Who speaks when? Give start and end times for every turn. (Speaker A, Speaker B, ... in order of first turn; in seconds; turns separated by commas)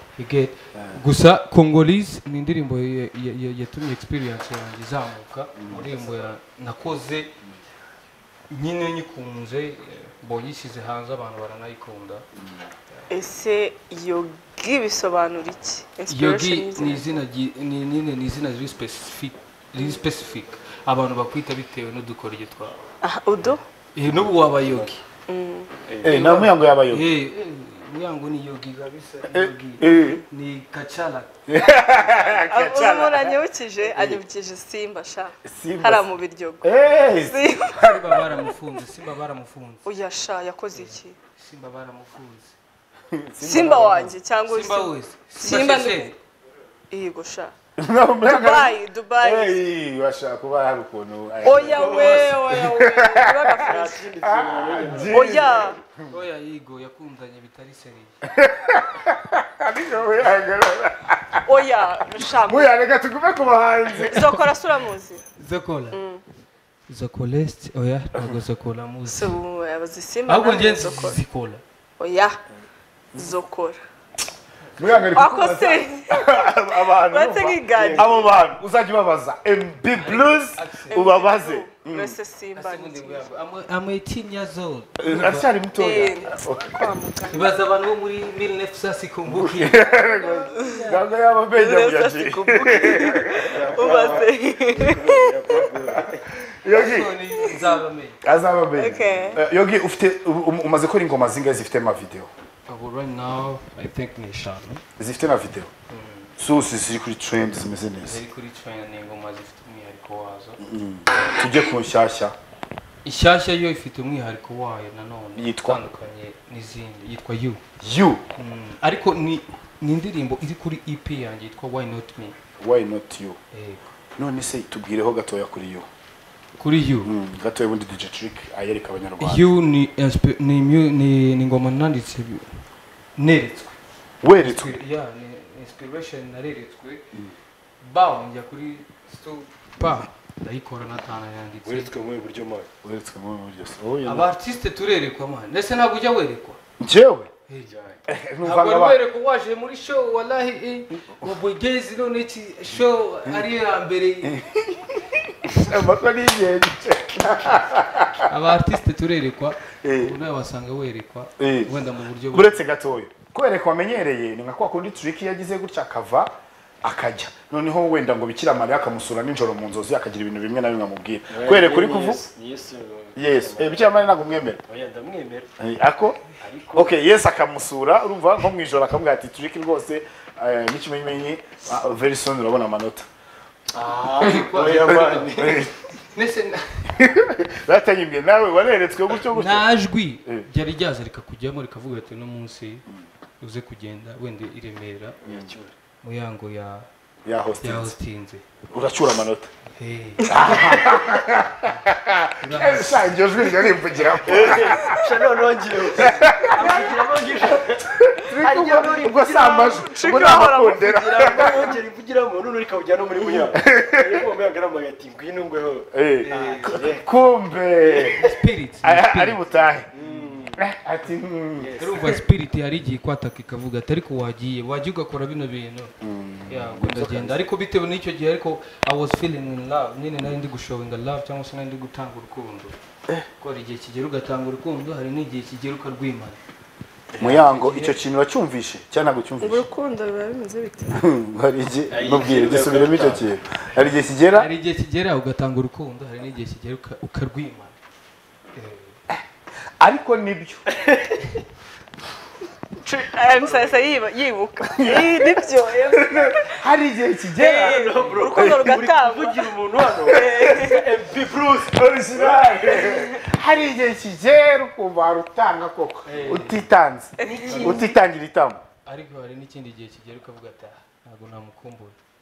Speaker A: 0.2-7.3, Speaker B: 0.7-1.0, Speaker B: 5.6-5.9, Speaker A: 8.5-12.3, Speaker C: 13.1-17.1, Speaker A: 16.1-22.8, Speaker C: 23.0-23.6, Speaker A: 23.9-25.0, Speaker D: 24.6-24.9, Speaker C: 25.3-25.7, Speaker D: 25.9-26.1, Speaker B: 26.0-27.1, Speaker A: 26.0-31.3, Speaker B: 29.3-30.2, Speaker B: 31.5-33.4, Speaker C: 32.5-38.5, Speaker B: 33.9-34.2, Speaker B: 35.4-36.1, Speaker B: 36.6-37.4, Speaker A: 37.7-39.9, Speaker C: 39.9-41.2, Speaker A: 40.7-42.6, Speaker B: 43.1-44.2, Speaker C: 43.4-46.0, Speaker A: 44.5-46.2, Speaker C: 46.9-47.5, Speaker B: 47.8-55.8, Speaker C: 48.2-49.6, Speaker C: 51.4-54.0, Speaker D: 51.7-52.5, Speaker D: 53.6-55.7, Speaker C: 55.1-55.8, Speaker A: 56.1-58.2, Speaker B: 58.3-61.4, Speaker C: 61.4-62.7, Speaker B: 62.4-64.4, Speaker C: 64.0-65.2, Speaker A: 64.1-64.4, Speaker A: 65.3-66.0, Speaker C: 65.9-66.2, Speaker A: 66.9-69.4, Speaker C: 69.1-71.2, Speaker A: 70.3-71.6, Speaker C: 72.0-72.4, Speaker B: 73.2-73.4, Speaker C: 73.2-73.8, Speaker B: 74.8-82.2, Speaker C: 75.1-78.3, Speaker D: 77.7-78.1, Speaker A: 79.9-81.0, Speaker C: 80.9-83.3, Speaker A: 82.5-85.6, Speaker B: 85.0-87.0, Speaker C: 85.8-87.5, Speaker A: 87.3-91.0, Speaker B: 89.3-94.2, Speaker C: 90.6-90.9, Speaker C: 91.5-95.6, Speaker D: 93.3-96.3, Speaker B: 95.9-97.1, Speaker A: 96.7-98.2, Speaker C: 97.4-97.7, Speaker B: 98.2-102.3, Speaker C: 98.8-99.4, Speaker A: 102.7-104.8, Speaker B: 105.0-105.7, Speaker A: 105.9-106.3, Speaker B: 106.4-108.2, Speaker A: 108.0-110.6, Speaker B: 110.6-112.3, Speaker A: 113.0-117.6, Speaker B: 115.4-115.8, Speaker B: 117.8-118.2, Speaker A: 118.4-122.3, Speaker B: 122.6-123.4, Speaker A: 123.5-123.8, Speaker B: 124.2-125.9, Speaker A: 126.6-127.1, Speaker B: 127.0-129.4, Speaker A: 129.2-132.6, Speaker A: 133.2-133.8, Speaker B: 134.2-134.7, Speaker A: 134.4-137.0, Speaker A: 137.8-141.9, Speaker D: 141.6-142.7, Speaker B: 142.8-144.3, Speaker A: 144.0-146.6, Speaker B: 146.8-147.3, Speaker D: 147.6-148.0, Speaker B: 148.1-149.0, Speaker A: 148.4-154.4, Speaker B: 154.2-158.2, Speaker A: 158.3-162.6, Speaker B: 159.8-160.2, Speaker B: 161.4-161.7, Speaker B: 162.3-166.3, Speaker B: 166.8-172.2, Speaker D: 171.3-173.8, Speaker B: 173.2-174.6, Speaker D: 174.7-175.5, Speaker B: 175.6-183.1, Speaker D: 176.4-177.0, Speaker D: 183.7-185.7, Speaker A: 184.2-186.9, Speaker B: 184.3-185.7, Speaker B: 186.9-189.7, Speaker A: 189.3-192.8, Speaker A: 193.4-195.2, Speaker D: 195.2-195.7, Speaker A: 196.0-196.9, Speaker B: 197.2-197.9, Speaker A: 197.6-198.4, Speaker B: 198.7-199.5, Speaker A: 199.8-200.3, Speaker C: 200.2-200.5, Speaker B: 200.3-205.1, Speaker A: 202.4-203.2, Speaker D: 204.2-217.1, Speaker B: 206.0-206.8, Speaker B: 207.9-211.7, Speaker C: 209.4-211.7, Speaker B: 213.2-214.2, Speaker B: 215.9-218.2, Speaker A: 216.3-216.8, Speaker D: 217.8-218.3, Speaker A: 218.1-220.3, Speaker B: 218.8-219.9, Speaker D: 219.9-220.6, Speaker B: 220.6-221.8, Speaker D: 221.6-222.2, Speaker A: 221.8-225.9, Speaker B: 226.0-227.4, Speaker A: 226.5-232.8, Speaker A: 233.4-236.4, Speaker D: 237.1-237.5, Speaker B: 237.2-239.7, Speaker A: 237.3-238.0, Speaker C: 239.4-241.0, Speaker B: 240.9-244.5, Speaker D: 241.9-243.3, Speaker A: 244.3-247.8, Speaker A: 248.6-249.0, Speaker B: 249.8-250.7, Speaker D: 250.7-251.3, Speaker C: 252.8-256.6, Speaker D: 253.3-253.8, Speaker B: 254.7-258.8, Speaker C: 257.4-259.5, Speaker D: 257.4-262.9, Speaker A: 258.0-258.3, Speaker C: 260.0-260.9, Speaker B: 260.1-260.6, Speaker B: 261.6-268.6, Speaker C: 262.7-263.2, Speaker A: 266.1-266.6, Speaker D: 266.1-266.4, Speaker C: 267.2-267.9, Speaker A: 267.3-268.0, Speaker A: 268.9-272.0